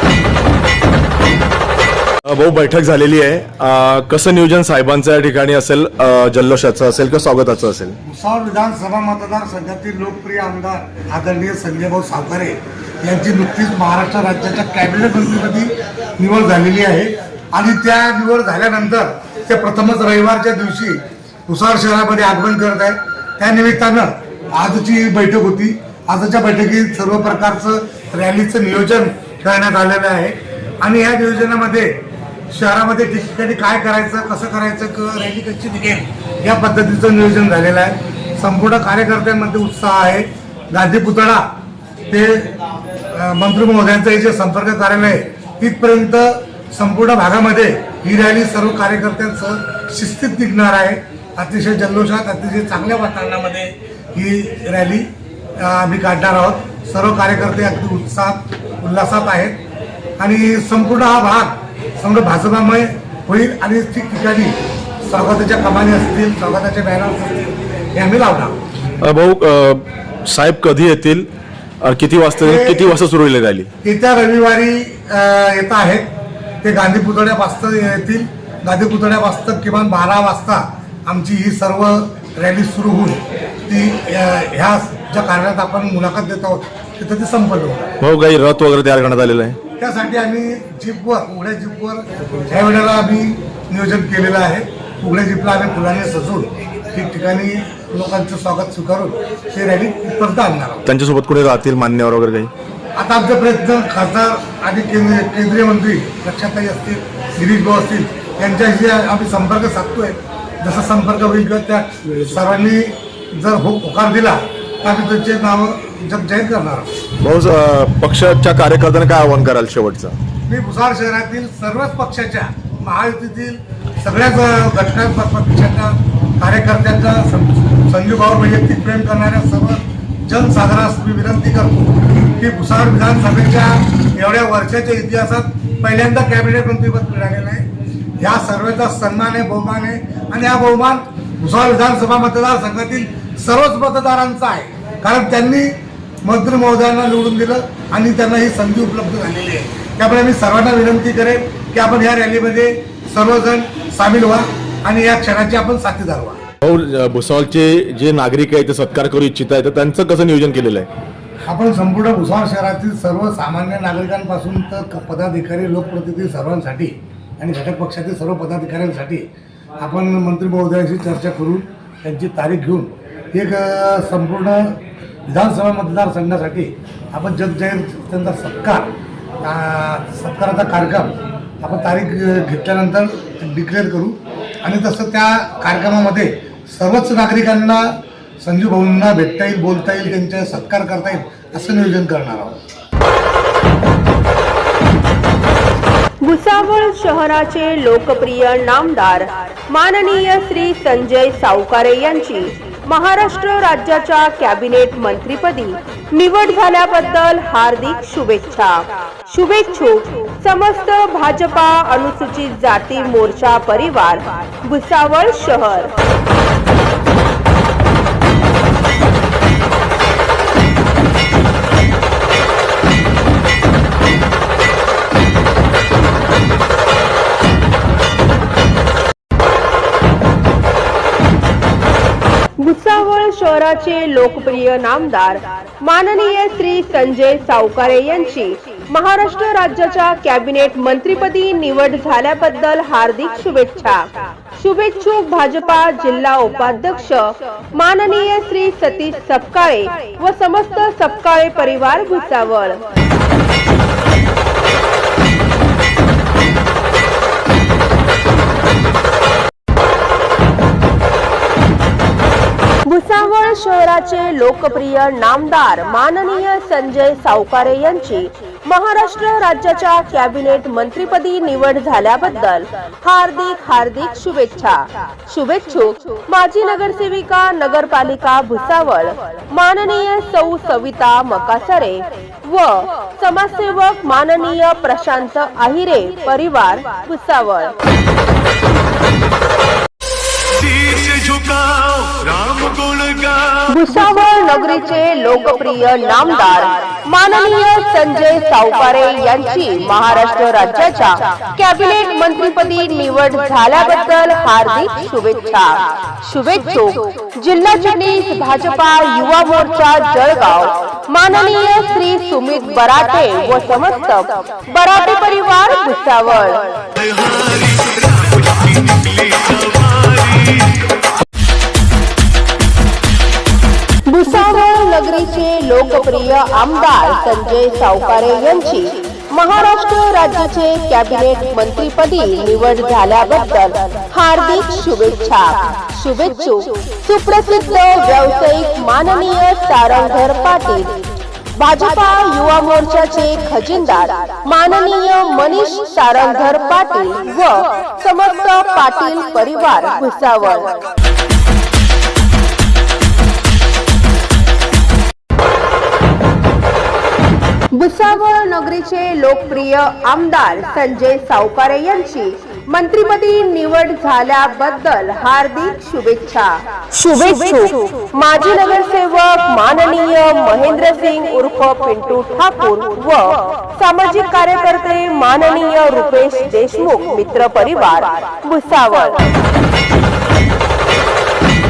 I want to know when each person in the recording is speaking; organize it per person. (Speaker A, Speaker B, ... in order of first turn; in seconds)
Speaker A: 2.3-8.0, 69.0-71.3, 71.8-73.7, 88.0-89.4, 100.9-102.5, 117.2-120.2, 156.6-160.9
Speaker B: 8.0-41.5, 42.1-42.5, 43.1-59.6, 60.2-68.6, 72.4-72.9, 73.8-76.1, 76.6-87.9, 89.8-100.8, 103.0-116.9, 120.5-137.7, 138.2-156.4, 161.4-169.2, 169.8-192.6
Speaker C: 196.2-216.0, 232.6-252.9, 262.9-287.8, 293.6-316.8, 324.1-341.0, 341.6-350.8, 357.7-379.4
Speaker D: 290.7-293.2, 317.2-317.9, 318.9-320.1